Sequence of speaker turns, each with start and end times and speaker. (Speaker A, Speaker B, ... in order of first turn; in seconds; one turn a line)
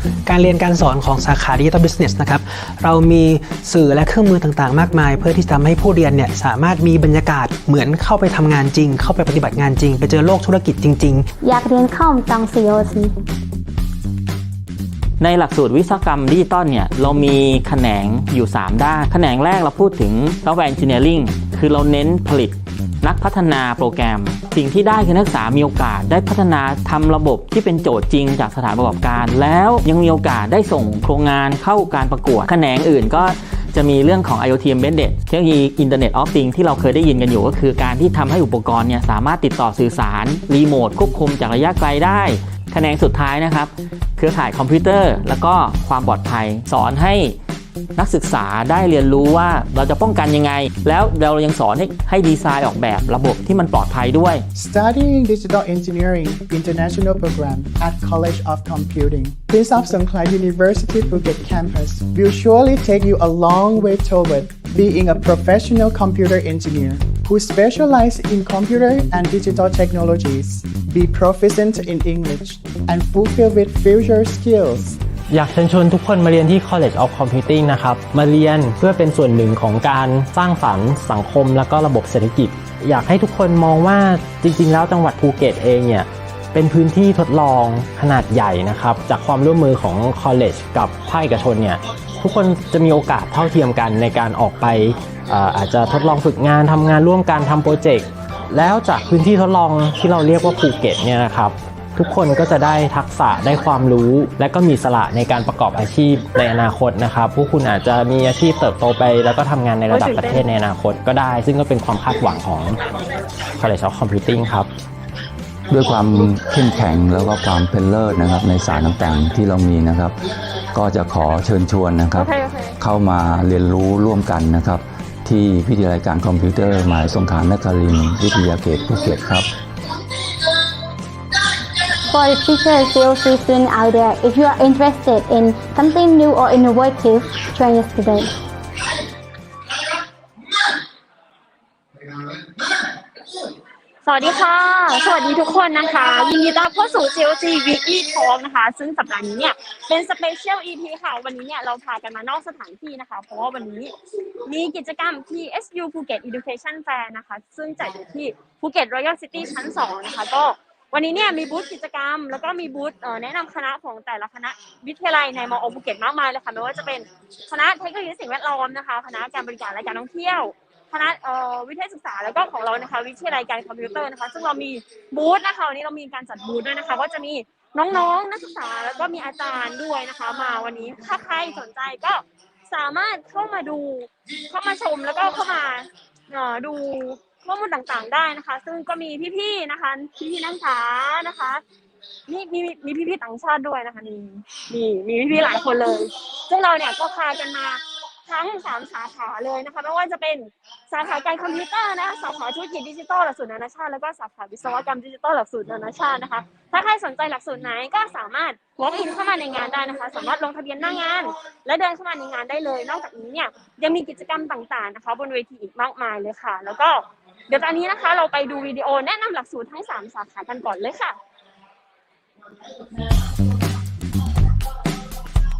Speaker A: 0.2-11.2
Speaker B: 11.4-13.1
Speaker C: 15.2-47.3
Speaker C: 48.0-54.4
Speaker D: 54.5-75.0
Speaker E: 75.3-112.8
Speaker F: 109.9-110.4
Speaker E: 113.6-114.7
Speaker G: 115.7-120.2
Speaker G: 120.7-129.5
Speaker F: 122.2-122.7
Speaker B: 132.1-138.3
Speaker F: 144.0-191.6
Speaker F: 192.3-221.2